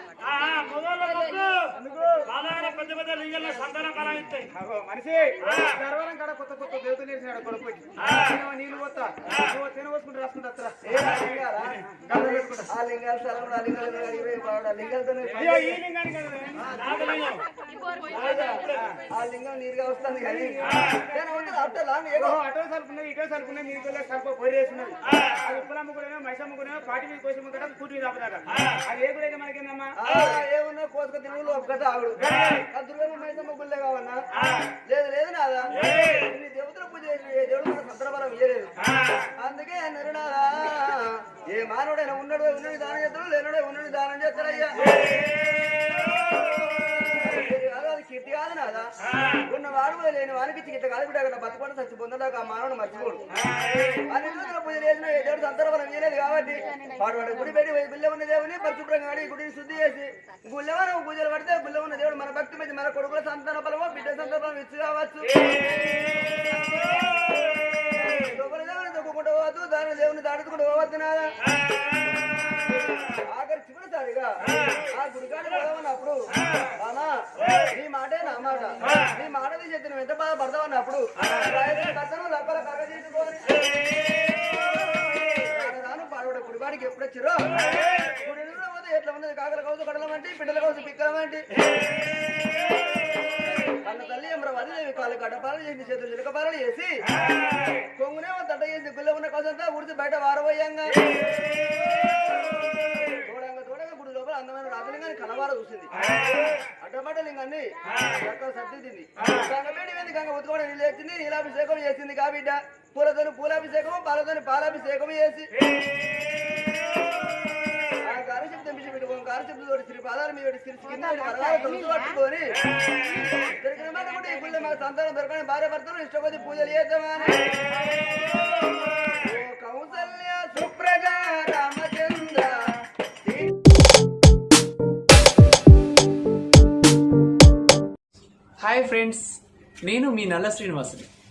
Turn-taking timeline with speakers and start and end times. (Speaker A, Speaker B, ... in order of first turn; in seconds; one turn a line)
Speaker A: 0.2-1.7
Speaker B: 1.7-2.3
Speaker A: 2.2-4.5
Speaker B: 4.5-12.7
Speaker A: 8.0-8.3
Speaker C: 10.8-15.8
Speaker B: 15.2-16.7
Speaker A: 16.7-17.4
Speaker C: 18.0-22.4
Speaker B: 18.7-19.0
Speaker B: 20.2-30.0
Speaker C: 30.0-34.2
Speaker B: 32.2-32.6
Speaker C: 34.9-38.7
Speaker C: 39.4-45.0
Speaker C: 46.8-48.9
Speaker C: 49.4-53.2
Speaker C: 54.0-65.6
Speaker C: 67.9-71.4
Speaker C: 73.3-76.2
Speaker C: 76.8-83.6
Speaker C: 85.3-91.5
Speaker C: 93.6-97.0
Speaker C: 98.0-101.0
Speaker C: 103.2-105.9
Speaker C: 106.8-115.5
Speaker C: 118.0-122.6
Speaker C: 123.3-127.6
Speaker C: 129.2-133.6
Speaker D: 138.6-141.1